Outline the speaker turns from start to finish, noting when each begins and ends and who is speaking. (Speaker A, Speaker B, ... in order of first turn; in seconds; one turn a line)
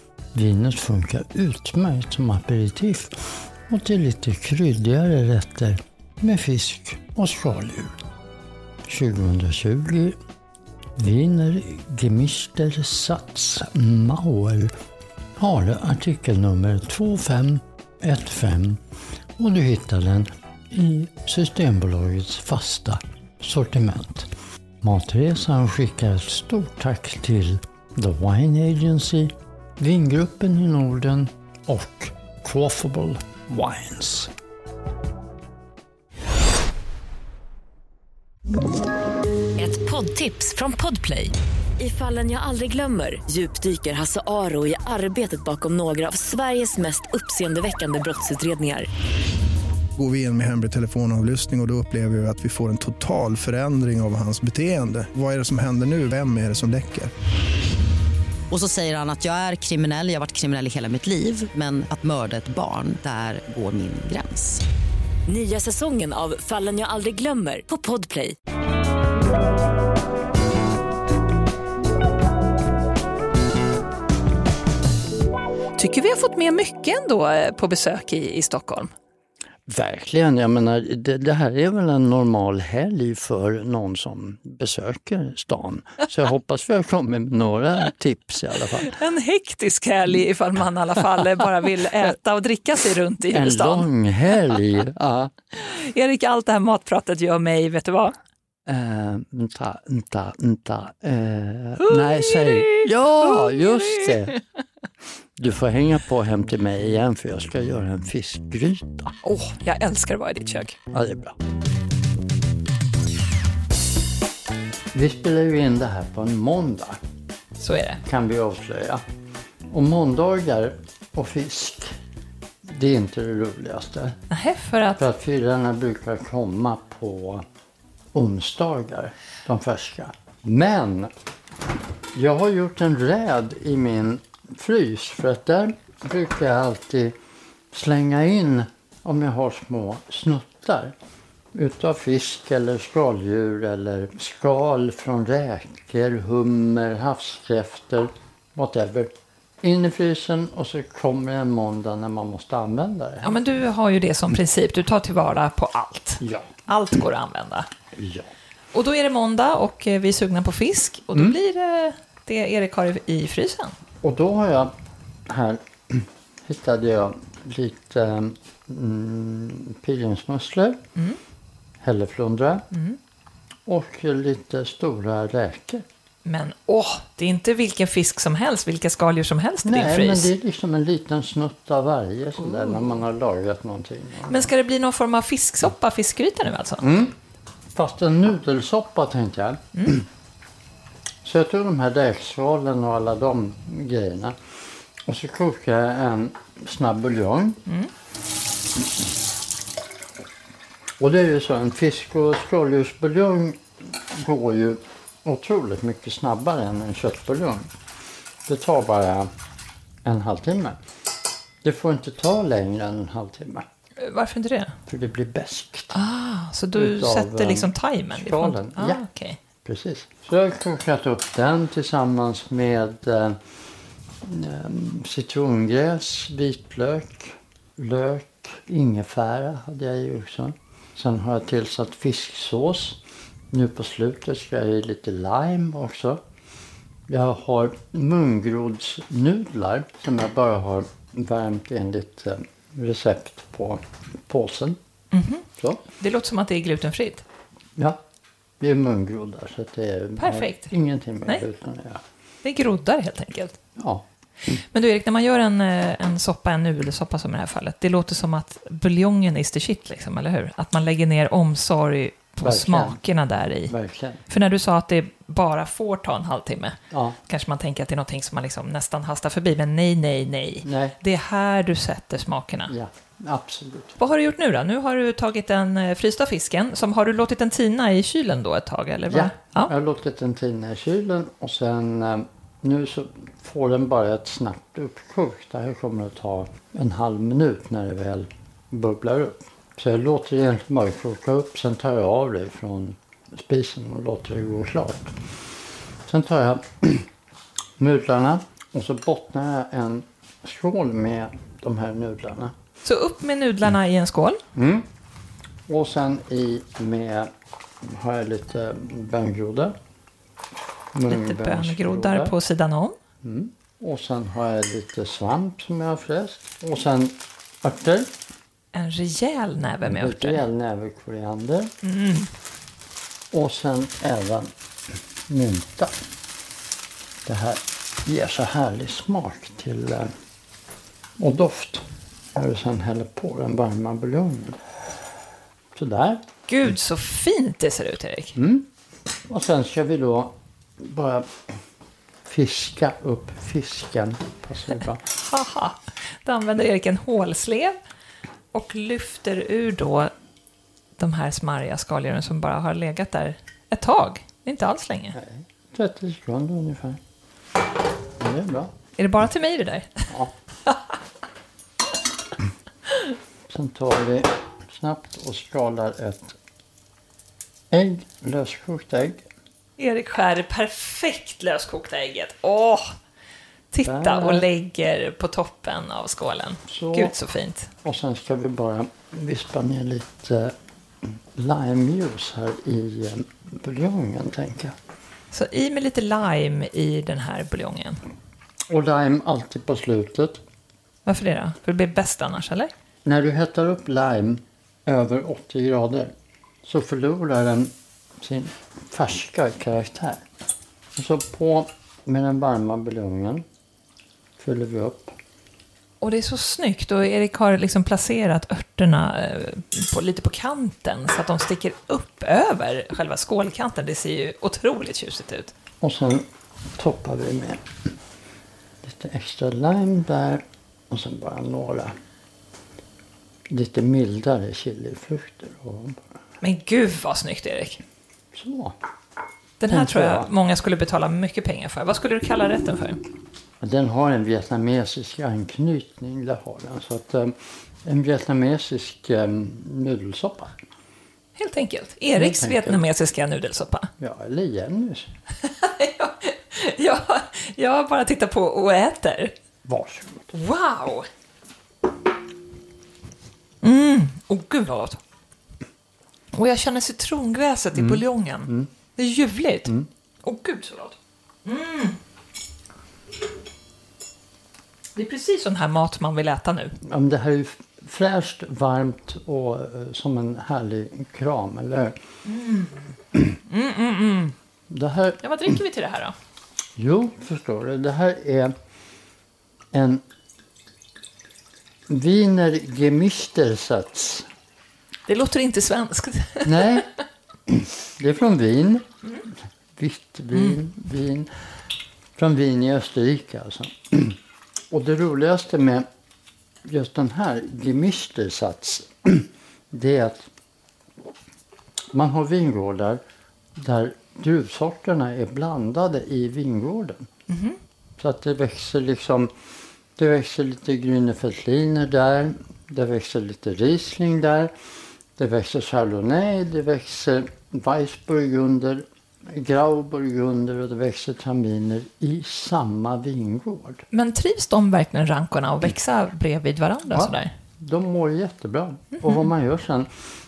Speaker A: 0.3-8.0
Speaker A: 8.8-10.2
Speaker A: 10.9-14.7
Speaker A: 15.4-18.8
Speaker A: 19.4-24.3
Speaker A: 24.8-34.3
Speaker B: 39.6-48.9
Speaker C: 50.0-57.1
Speaker D: 58.5-64.6
Speaker B: 65.3-68.3
Speaker E: 75.8-78.9
Speaker A: 79.7-88.9
Speaker E: 88.8-93.9
Speaker A: 93.3-95.3
Speaker E: 95.5-98.1
Speaker A: 98.7-104.3
Speaker E: 101.8-104.3
Speaker A: 105.4-109.1
Speaker E: 109.2-110.8
Speaker A: 110.9-111.3
Speaker A: 114.9-117.0
Speaker E: 117.6-118.0
Speaker A: 118.0-119.0
Speaker A: 119.7-122.0
Speaker A: 122.6-124.2
Speaker E: 124.3-125.0
Speaker A: 125.0-127.4
Speaker A: 128.1-131.1
Speaker A: 132.1-137.2
Speaker A: 137.7-140.9
Speaker A: 141.5-153.4
Speaker E: 153.2-157.7
Speaker A: 156.2-156.5
Speaker A: 157.9-158.3
Speaker E: 158.7-163.7
Speaker A: 164.0-164.7
Speaker A: 165.3-170.8
Speaker A: 171.8-172.7
Speaker E: 172.7-173.0
Speaker A: 173.7-175.8
Speaker E: 176.2-180.3
Speaker A: 179.6-184.5
Speaker E: 182.4-182.8
Speaker E: 184.3-186.8
Speaker A: 186.8-187.1
Speaker A: 187.7-190.0
Speaker E: 189.7-190.0
Speaker A: 191.2-194.4
Speaker A: 195.0-197.6
Speaker A: 201.0-207.7
Speaker A: 208.4-209.3
Speaker A: 210.0-210.8
Speaker A: 211.6-213.7
Speaker E: 214.0-214.8
Speaker A: 214.9-215.9
Speaker E: 215.9-219.4
Speaker A: 216.7-219.0
Speaker A: 219.6-223.4
Speaker A: 224.2-236.2
Speaker A: 237.1-244.8
Speaker E: 245.1-245.4
Speaker E: 246.0-247.2
Speaker A: 248.6-252.0
Speaker E: 250.2-250.7
Speaker E: 252.4-253.6
Speaker A: 253.8-254.0
Speaker E: 254.5-263.7
Speaker A: 262.4-263.0
Speaker A: 263.7-264.2
Speaker E: 264.3-272.7
Speaker A: 266.9-267.2
Speaker A: 270.6-271.0
Speaker A: 272.7-273.9
Speaker E: 274.0-279.7
Speaker A: 279.1-295.3
Speaker A: 296.1-297.1
Speaker A: 297.8-302.5
Speaker E: 302.8-304.4
Speaker A: 304.5-304.9
Speaker A: 305.7-309.8
Speaker A: 310.9-312.3
Speaker E: 311.1-312.9
Speaker A: 313.2-318.1
Speaker E: 318.7-320.4
Speaker A: 319.8-321.7
Speaker E: 321.8-322.3
Speaker A: 323.3-324.5
Speaker A: 325.3-325.9
Speaker A: 327.2-330.1
Speaker A: 331.2-334.6
Speaker A: 335.7-336.2
Speaker E: 336.5-338.3
Speaker A: 338.3-338.7
Speaker A: 339.3-341.6
Speaker A: 342.2-345.0
Speaker E: 345.2-347.8
Speaker E: 348.5-350.1
Speaker E: 351.0-355.2
Speaker A: 355.1-357.0
Speaker A: 358.2-358.7
Speaker E: 359.0-360.0
Speaker A: 363.5-366.4
Speaker A: 367.7-369.2
Speaker E: 369.8-372.9
Speaker E: 373.7-377.7
Speaker A: 373.8-374.5
Speaker A: 376.7-377.1
Speaker A: 377.8-384.8
Speaker E: 385.3-388.0
Speaker A: 388.7-390.4
Speaker E: 391.1-392.7
Speaker A: 393.0-396.1
Speaker A: 396.6-400.2
Speaker A: 400.9-403.4
Speaker A: 404.4-405.1
Speaker E: 406.0-415.5
Speaker A: 415.8-417.6
Speaker A: 418.8-421.9
Speaker A: 423.5-426.0
Speaker E: 426.4-427.8
Speaker A: 428.3-428.8
Speaker E: 429.6-433.0
Speaker A: 429.7-430.3
Speaker A: 433.6-440.6
Speaker E: 441.4-443.9
Speaker A: 442.1-442.8
Speaker A: 444.0-445.1
Speaker E: 445.4-449.3
Speaker A: 449.6-450.3
Speaker E: 450.3-451.1
Speaker E: 453.6-455.0
Speaker E: 456.3-459.7
Speaker A: 457.7-458.7
Speaker E: 460.2-462.0
Speaker E: 464.9-466.8
Speaker A: 466.8-472.0
Speaker E: 472.2-472.7
Speaker E: 473.3-474.3
Speaker A: 474.7-475.5
Speaker E: 475.2-476.1
Speaker A: 476.8-478.5
Speaker A: 479.7-480.0
Speaker A: 481.9-484.3
Speaker E: 485.1-486.9
Speaker A: 486.4-486.9
Speaker A: 487.5-488.9
Speaker A: 489.8-491.3
Speaker A: 492.2-494.2
Speaker A: 494.7-495.9
Speaker A: 496.6-500.3
Speaker A: 501.9-503.0
Speaker A: 503.6-507.1
Speaker E: 507.3-507.6
Speaker A: 508.0-509.3
Speaker A: 509.9-514.5
Speaker A: 515.2-523.8
Speaker E: 523.9-527.3
Speaker A: 526.9-529.9